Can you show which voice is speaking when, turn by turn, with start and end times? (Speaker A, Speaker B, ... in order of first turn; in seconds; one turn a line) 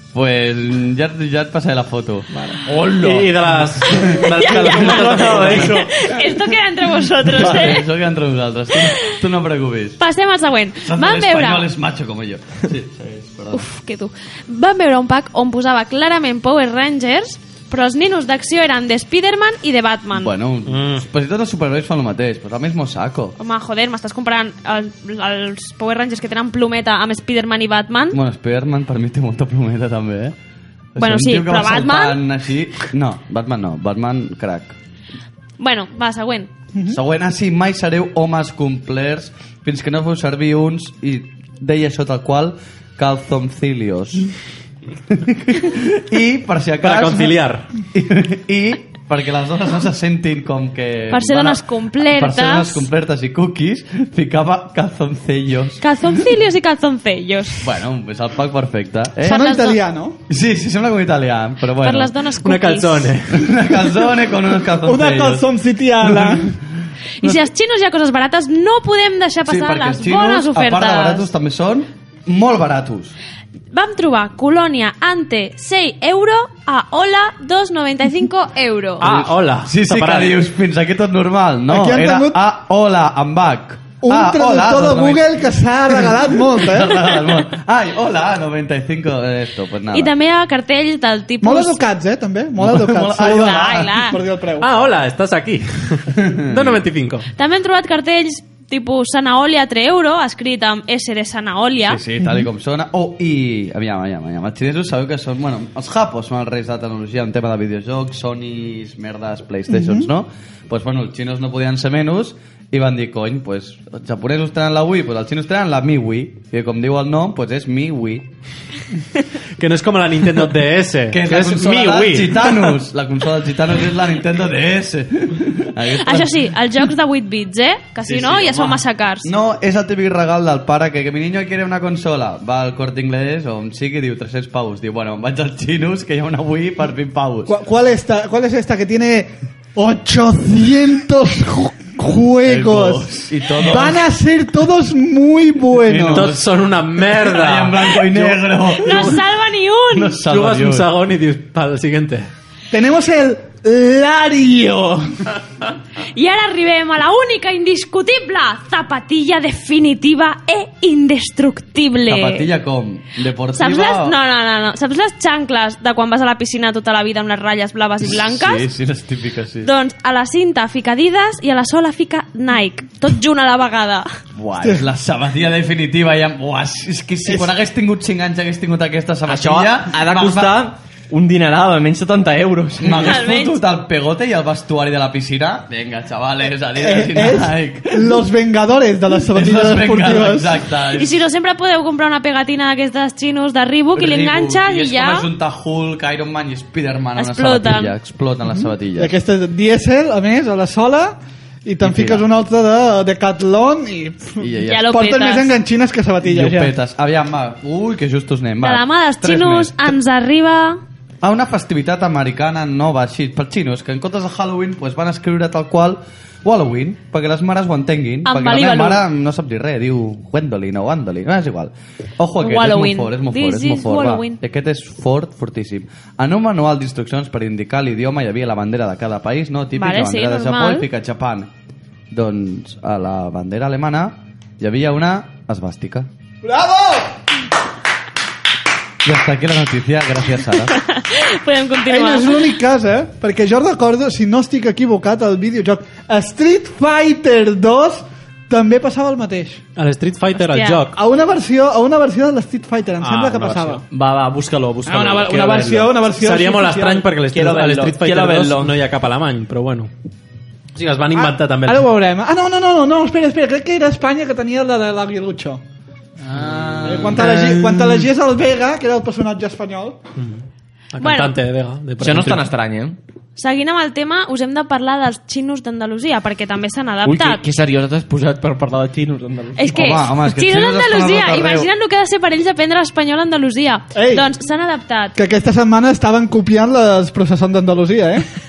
Speaker A: 0.1-2.3
Speaker B: 2.3-5.7
Speaker C: 2.6-3.3
Speaker A: 3.8-6.4
Speaker D: 4.0-7.8
Speaker C: 4.7-5.8
Speaker A: 7.3-10.0
Speaker D: 8.7-9.1
Speaker D: 10.0-11.7
Speaker A: 10.8-13.7
Speaker D: 13.5-20.3
Speaker A: 20.1-23.4
Speaker B: 20.7-21.0
Speaker D: 23.4-28.2
Speaker A: 28.1-30.3
Speaker A: 30.9-34.8
Speaker D: 31.0-32.2
Speaker D: 35.6-36.5
Speaker A: 36.9-44.3
Speaker A: 45.1-55.8
Speaker B: 46.8-47.6
Speaker D: 51.1-52.9
Speaker D: 55.8-57.6
Speaker A: 57.6-59.4
Speaker D: 59.2-59.8
Speaker E: 59.2-60.2
Speaker A: 60.3-62.1
Speaker D: 61.8-63.1
Speaker B: 62.4-63.5
Speaker A: 63.3-65.5
Speaker E: 64.8-66.5
Speaker A: 66.0-66.5
Speaker D: 67.2-71.2
Speaker A: 69.4-73.1
Speaker D: 73.7-79.1
Speaker B: 79.0-80.3
Speaker A: 79.0-85.2
Speaker E: 81.7-82.4
Speaker E: 84.0-87.1
Speaker A: 85.9-90.1
Speaker D: 89.9-91.8
Speaker E: 91.4-94.7
Speaker A: 92.6-93.9
Speaker D: 93.3-94.2
Speaker B: 94.6-97.3
Speaker A: 96.2-96.8
Speaker D: 97.3-102.0
Speaker A: 101.8-118.3
Speaker B: 119.6-122.7
Speaker A: 121.1-126.3
Speaker D: 125.9-129.3
Speaker A: 128.0-137.5
Speaker E: 137.5-146.3
Speaker A: 142.4-144.0
Speaker A: 145.8-146.5
Speaker B: 146.1-147.9
Speaker A: 147.1-149.2
Speaker D: 148.7-150.2
Speaker A: 149.9-150.9
Speaker B: 150.3-152.3
Speaker E: 152.7-155.0
Speaker D: 156.1-162.5
Speaker A: 162.1-164.2
Speaker D: 163.5-168.7
Speaker A: 168.0-169.7
Speaker D: 169.6-174.1
Speaker A: 174.3-180.6
Speaker C: 179.2-183.1
Speaker A: 182.8-188.1
Speaker D: 183.0-183.6
Speaker E: 186.8-190.6
Speaker A: 189.3-191.2
Speaker D: 190.9-195.2
Speaker A: 193.9-199.1
Speaker D: 197.2-197.9
Speaker E: 199.0-206.7
Speaker A: 201.8-202.2
Speaker A: 204.4-204.8
Speaker D: 204.6-205.5
Speaker A: 206.2-210.0
Speaker D: 208.6-210.8
Speaker A: 211.2-231.5
Speaker D: 218.2-219.0
Speaker D: 222.4-224.4
Speaker D: 229.8-230.9
Speaker A: 232.1-236.1
Speaker E: 236.4-237.1
Speaker A: 239.0-240.7
Speaker D: 240.7-242.4
Speaker E: 241.8-249.6
Speaker B: 249.8-250.9
Speaker D: 250.4-250.8
Speaker E: 250.9-253.8
Speaker B: 253.0-253.8
Speaker C: 253.9-255.8
Speaker E: 254.8-257.1
Speaker B: 254.9-259.9
Speaker C: 257.1-258.8
Speaker B: 260.7-261.9
Speaker E: 261.1-265.6
Speaker A: 266.3-267.5
Speaker E: 266.8-270.0
Speaker B: 270.2-272.4
Speaker D: 271.0-271.4
Speaker C: 272.0-273.0
Speaker D: 273.4-277.4
Speaker C: 277.0-279.6
Speaker D: 279.6-285.1
Speaker A: 279.7-281.7
Speaker E: 283.9-284.3
Speaker E: 285.1-288.3